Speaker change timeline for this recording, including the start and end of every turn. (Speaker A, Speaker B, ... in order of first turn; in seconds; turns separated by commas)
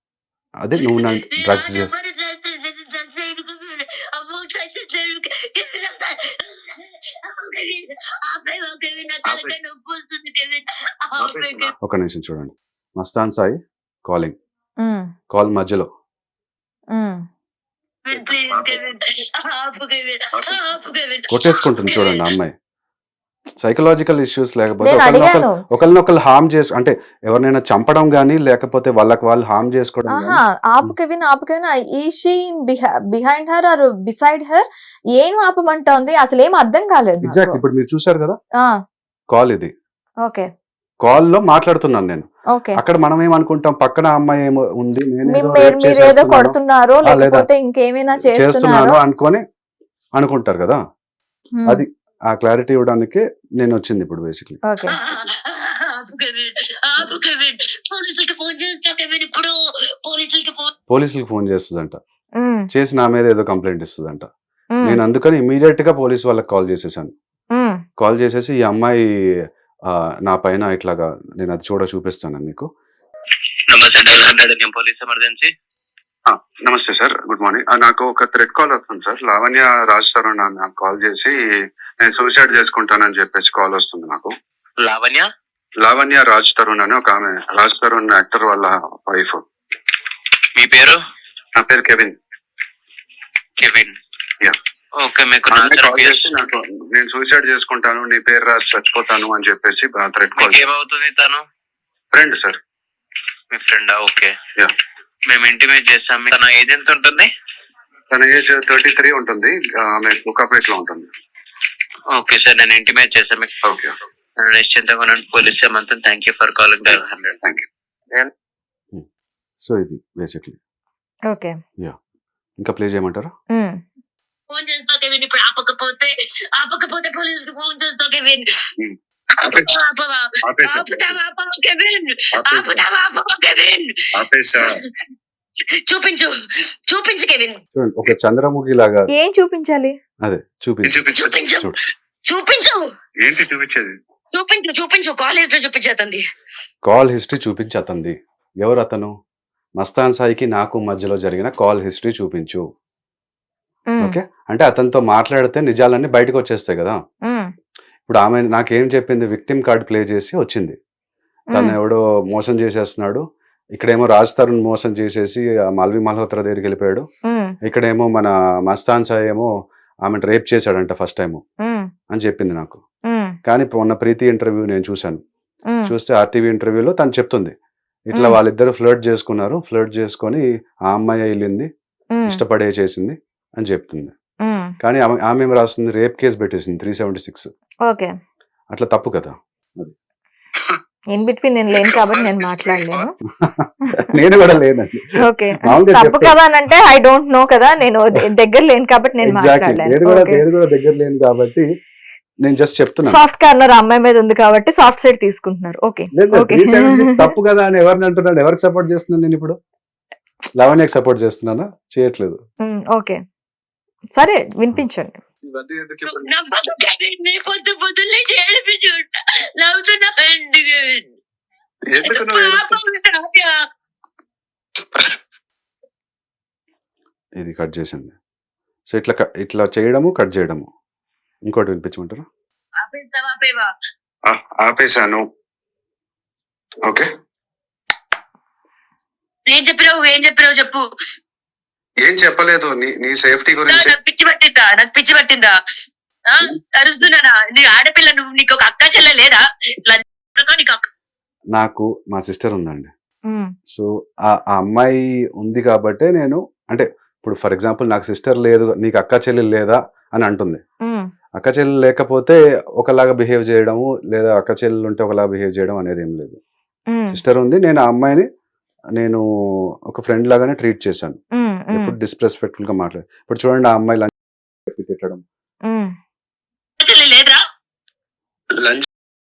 Speaker A: 0.6-1.9, Speaker B: 1.0-11.7, Speaker C: 9.2-9.6, Speaker C: 11.2-11.7, Speaker A: 11.8-14.3, Speaker A: 15.3-15.9, Speaker D: 16.9-17.2, Speaker B: 18.1-22.3, Speaker C: 18.1-18.9, Speaker C: 20.3-20.6, Speaker A: 21.3-22.5, Speaker A: 23.6-30.9, Speaker D: 24.8-25.6, Speaker D: 30.1-37.6, Speaker A: 37.2-38.4, Speaker A: 39.3-39.7, Speaker A: 41.0-47.5, Speaker D: 45.3-49.0, Speaker A: 48.2-49.4, Speaker A: 50.1-50.8, Speaker D: 51.6-51.8, Speaker A: 51.7-54.6, Speaker D: 54.7-55.0, Speaker B: 55.0-59.5, Speaker B: 60.0-60.7, Speaker A: 60.9-62.0, Speaker D: 62.4-62.7, Speaker A: 62.7-64.3, Speaker A: 64.8-67.1, Speaker A: 68.0-72.7, Speaker E: 73.7-75.5, Speaker C: 76.3-81.4, Speaker C: 82.0-84.3, Speaker E: 84.8-85.3, Speaker C: 85.8-89.4, Speaker E: 90.6-91.0, Speaker C: 91.5-92.2, Speaker E: 93.6-93.9, Speaker E: 95.0-96.3, Speaker C: 95.5-100.6, Speaker E: 100.3-101.4, Speaker C: 102.1-102.6, Speaker E: 103.5-104.3, Speaker E: 105.3-107.3, Speaker C: 108.1-111.1, Speaker E: 112.1-113.5, Speaker C: 113.6-113.9, Speaker E: 114.4-117.3, Speaker C: 116.8-118.3, Speaker A: 119.6-120.6, Speaker A: 122.6-123.3, Speaker B: 124.5-128.4, Speaker C: 128.8-129.7, Speaker B: 129.4-133.9, Speaker C: 130.4-131.2, Speaker C: 132.3-132.8, Speaker C: 134.2-134.8, Speaker B: 135.9-136.3, Speaker B: 136.9-137.6, Speaker A: 137.7-139.1, Speaker D: 139.1-139.9, Speaker A: 140.2-141.0, Speaker C: 140.8-141.4, Speaker B: 141.1-141.7, Speaker B: 142.3-142.8, Speaker C: 143.2-143.9, Speaker B: 144.3-146.2, Speaker A: 146.9-149.1, Speaker A: 149.8-152.6, Speaker A: 154.0-157.0, Speaker A: 158.1-160.8, Speaker A: 161.5-163.2, Speaker A: 163.7-167.1, Speaker D: 167.3-167.5, Speaker A: 167.6-169.5, Speaker A: 170.1-171.4, Speaker A: 172.1-172.8, Speaker A: 173.4-175.2, Speaker A: 175.8-177.5, Speaker A: 178.1-181.7, Speaker A: 182.3-184.1, Speaker D: 184.4-184.7, Speaker A: 184.8-187.5, Speaker A: 188.7-189.9, Speaker D: 191.1-193.1, Speaker C: 191.8-193.1, Speaker A: 193.4-196.3, Speaker D: 195.2-200.4, Speaker A: 199.2-201.7, Speaker A: 202.4-203.2, Speaker D: 203.1-207.3, Speaker A: 206.1-209.6, Speaker A: 210.6-212.4, Speaker D: 212.7-213.2, Speaker D: 214.2-215.2, Speaker C: 215.4-216.3, Speaker B: 216.1-221.1, Speaker C: 221.9-222.8, Speaker B: 222.0-223.5, Speaker A: 227.4-228.1, Speaker A: 228.9-230.7, Speaker A: 231.4-232.2, Speaker B: 232.8-233.7, Speaker C: 234.3-235.2, Speaker B: 239.5-240.8, Speaker C: 242.1-243.9, Speaker B: 243.7-245.5, Speaker B: 246.3-250.9, Speaker A: 251.5-252.9, Speaker A: 253.7-260.6, Speaker A: 261.4-266.4, Speaker D: 266.9-267.2, Speaker A: 267.1-268.2, Speaker A: 269.0-269.2, Speaker A: 269.9-271.2, Speaker D: 271.4-271.9, Speaker A: 271.7-274.1, Speaker A: 274.6-275.2, Speaker B: 276.8-277.4